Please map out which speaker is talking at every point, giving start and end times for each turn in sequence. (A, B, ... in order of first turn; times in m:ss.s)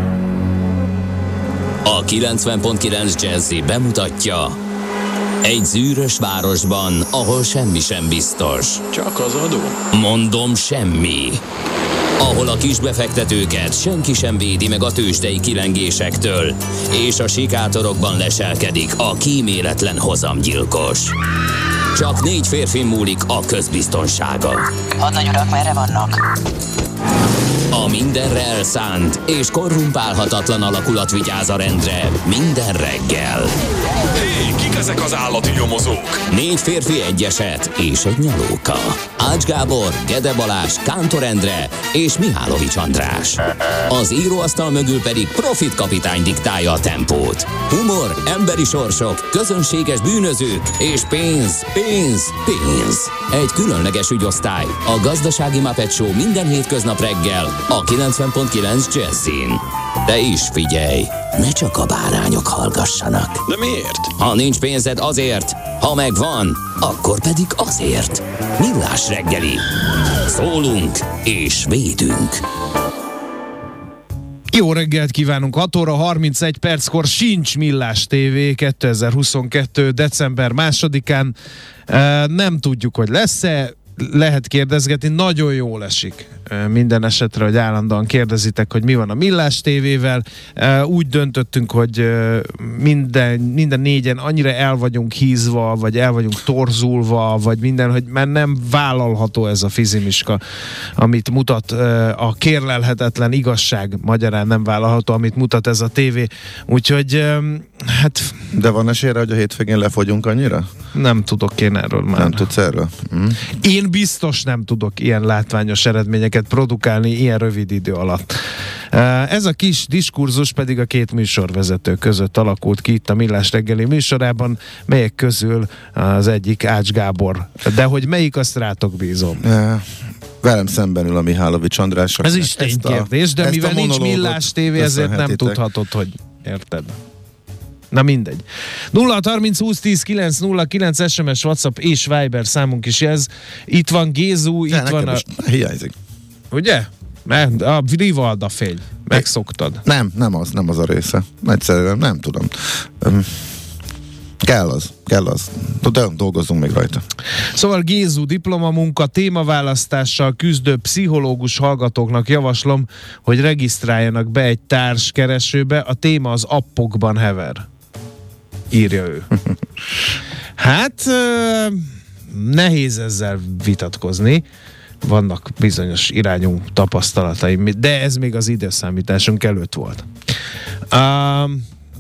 0:01.8-0:04.6 A
0:05.4-0:08.8 A
0:08.9-0:09.8 B
0:09.9-0:11.4 A
0:12.2-0:21.2 A
0:21.9-0:26.2 A
0:27.7-0:33.5 A
0:34.1-0:36.2 B
0:36.3-1:03.4 A
1:03.5-1:04.1 B
1:04.2-1:12.4 A
1:14.5-1:21.3 C
1:21.9-1:40.4 C
1:41.0-1:48.4 C
1:48.5-1:50.7 D
1:50.9-1:52.5 C
1:52.2-1:53.4 D
1:53.5-1:58.3 C
1:58.9-2:09.4 C
2:09.4-2:15.6 D
2:12.2-2:17.0 C
2:17.9-2:25.2 C
2:24.7-2:25.9 D
2:26.5-2:29.8 C
2:29.8-2:33.4 D
2:34.4-2:37.0 D
2:37.5-2:47.6 C
2:48.7-2:49.3 C
2:50.6-2:54.4 C
2:55.0-3:00.1 C
3:00.9-3:01.6 C